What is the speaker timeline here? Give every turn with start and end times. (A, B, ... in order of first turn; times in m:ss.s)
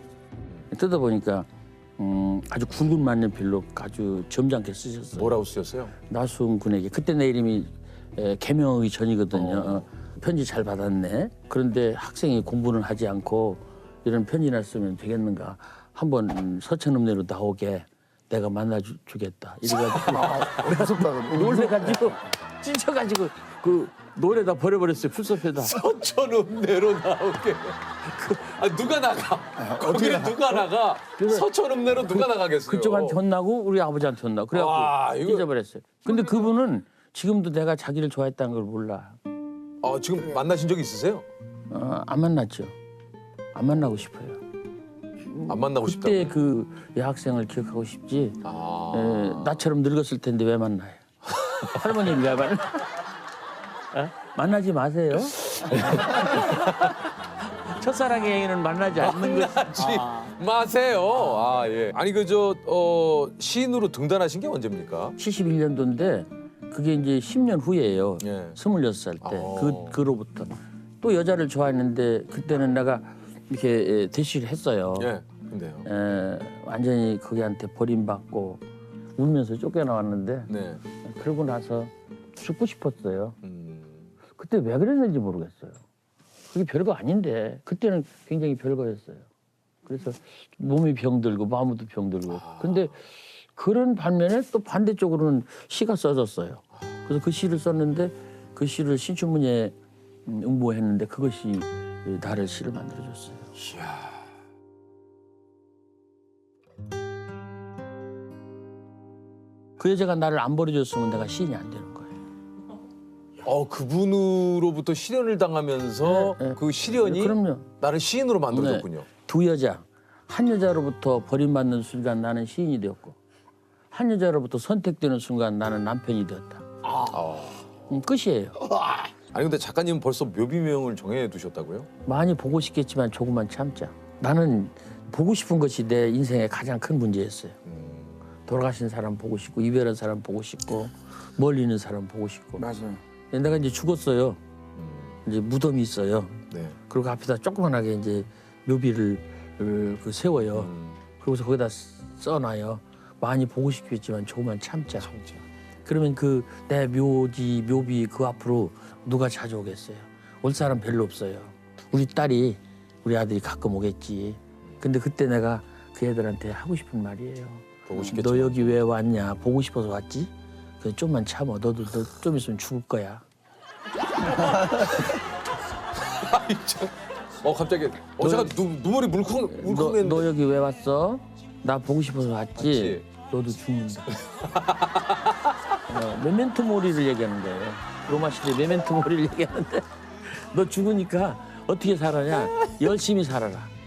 0:00.7-0:05.4 A
0:05.1-0:05.9 B
0:06.1-0:25.8 A
0:09.3-0:09.9 B
0:19.8-0:20.6 B
0:20.0-0:22.2 C
0:25.6-0:33.2 B
0:28.2-0:28.6 A
0:29.6-0:30.6 C
0:31.2-0:39.2 A
0:34.5-0:35.5 B
0:39.8-0:41.3 B
0:41.7-0:42.8 A
0:43.5-0:44.4 A
0:45.3-0:53.1 A
0:45.5-0:46.4 B
0:48.4-0:49.6 B
0:53.9-0:56.9 A
0:55.2-0:57.0 B
0:57.6-1:00.4 A
0:59.0-1:05.2 B
1:05.2-1:15.1 A
1:08.2-1:08.6 B
1:09.2-1:10.0 B
1:15.0-1:15.9 B
1:15.8-1:18.6 A
1:19.2-1:23.4 A
1:20.5-1:20.8 B
1:23.4-1:24.1 B
1:24.4-1:25.8 A
1:26.5-1:29.3 A
1:29.9-1:33.0 A
1:32.3-1:33.0 B
1:33.6-1:39.8 A
1:40.3-1:43.5 A
1:43.6-1:44.2 B
1:49.8-1:52.2 A
1:53.4-1:59.1 B
1:56.0-1:57.7 A
1:58.5-2:03.2 A
2:03.9-2:06.7 A
2:07.1-2:07.7 B
2:07.9-2:08.7 A
2:08.8-2:09.1 C
2:09.3-2:11.9 B
2:12.1-2:17.6 A
2:17.6-2:18.2 B
2:18.5-2:22.7 A
2:22.6-2:23.0 C
2:23.3-2:24.4 A
2:24.8-2:25.2 B
2:25.2-2:35.1 A
2:26.5-2:26.8 B
2:30.5-2:31.0 B
2:35.0-2:35.4 B
2:35.9-2:53.2 A
2:47.9-2:48.8 B
2:56.0-3:00.3 B
2:58.2-2:58.6 A
2:59.3-3:04.1 A
3:02.6-3:03.0 B
3:04.1-3:05.5 B
3:05.9-3:13.7 A